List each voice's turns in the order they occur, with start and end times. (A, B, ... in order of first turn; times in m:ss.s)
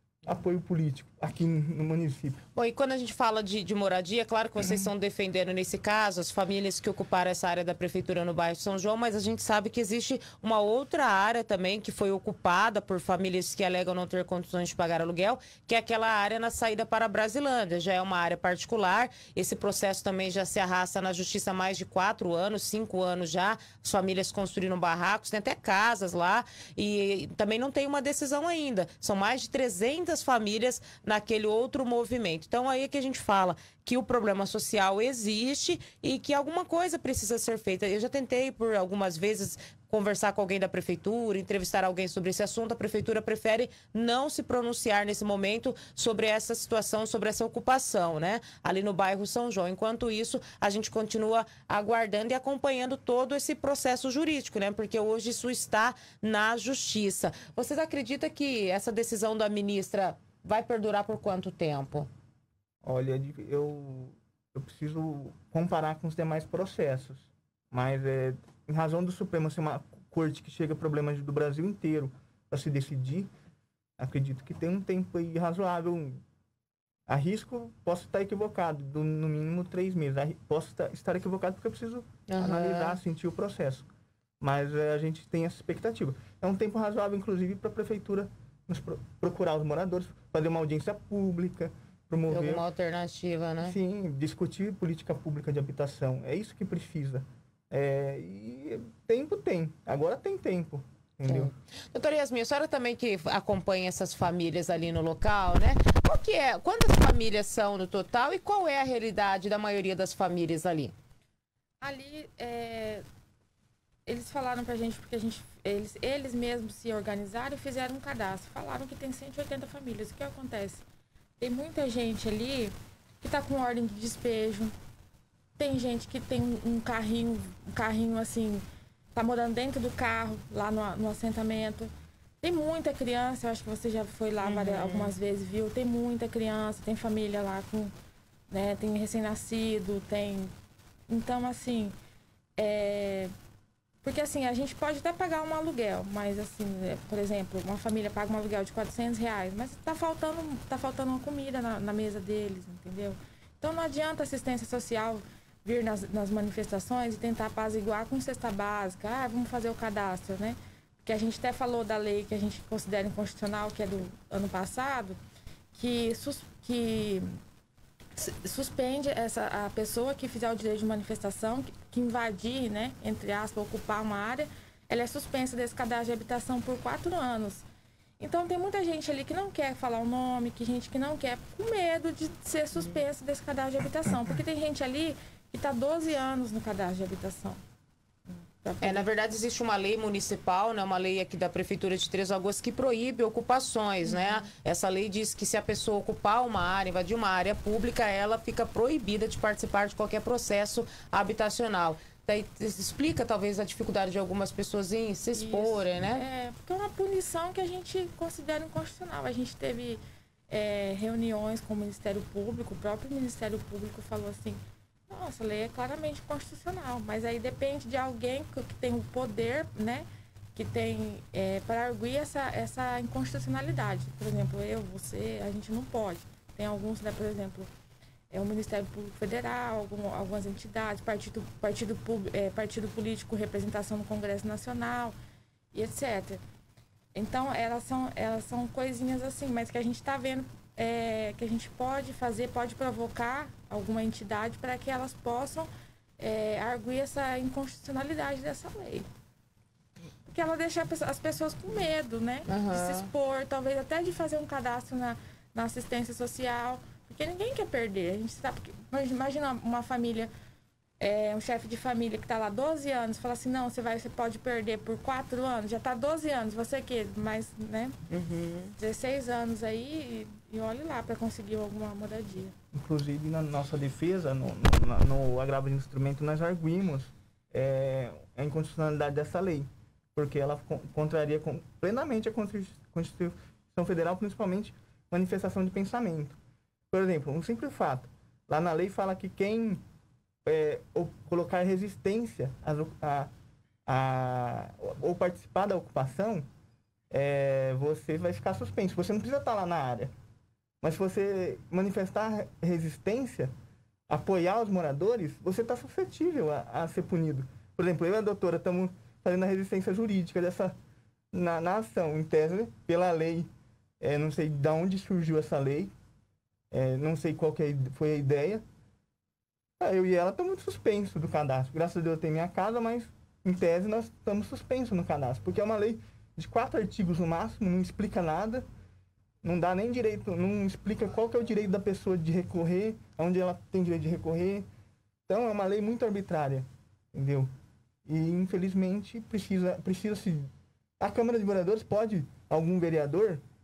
0:00.2-0:02.4 A
0:02.6-1:02.1 B
1:02.8-1:13.3 A
1:14.0-1:16.2 A
1:17.1-1:23.9 A
1:22.3-1:23.0 B
1:24.4-1:32.6 A
1:32.3-1:33.8 B
1:33.6-1:41.5 A
1:41.3-1:50.9 B
1:51.8-1:53.0 C
1:54.1-2:00.8 C
2:01.4-2:04.8 C
2:05.6-2:08.6 C
2:09.2-2:17.9 C
2:14.4-2:15.2 B
2:18.5-2:20.5 C
2:21.1-2:22.0 C
2:22.6-2:23.3 C
2:24.0-2:45.2 C
2:45.7-2:47.3 C
2:48.2-2:57.6 C
2:58.2-3:07.6 C
3:08.6-3:09.1 C
3:08.8-3:26.2 B
3:25.3-3:47.7 C
3:48.3-3:55.2 C
3:55.7-3:56.4 C
3:57.2-4:09.1 C
4:10.3-4:20.3 C
4:12.5-4:13.1 B
4:21.0-4:28.0 C
4:28.1-4:28.8 B
4:28.8-4:32.6 C
4:32.7-4:46.4 A
4:46.9-4:49.8 A
4:50.4-4:53.3 A
4:53.9-4:56.5 A
4:57.1-5:00.1 A
5:00.8-5:03.5 A
5:04.1-5:10.8 A
5:11.3-5:13.5 A
5:14.0-5:15.9 A
5:16.7-5:18.6 A
5:19.8-5:28.6 A
5:29.4-5:34.6 A
5:35.3-5:37.5 A
5:38.1-5:40.5 A
5:41.0-5:43.4 A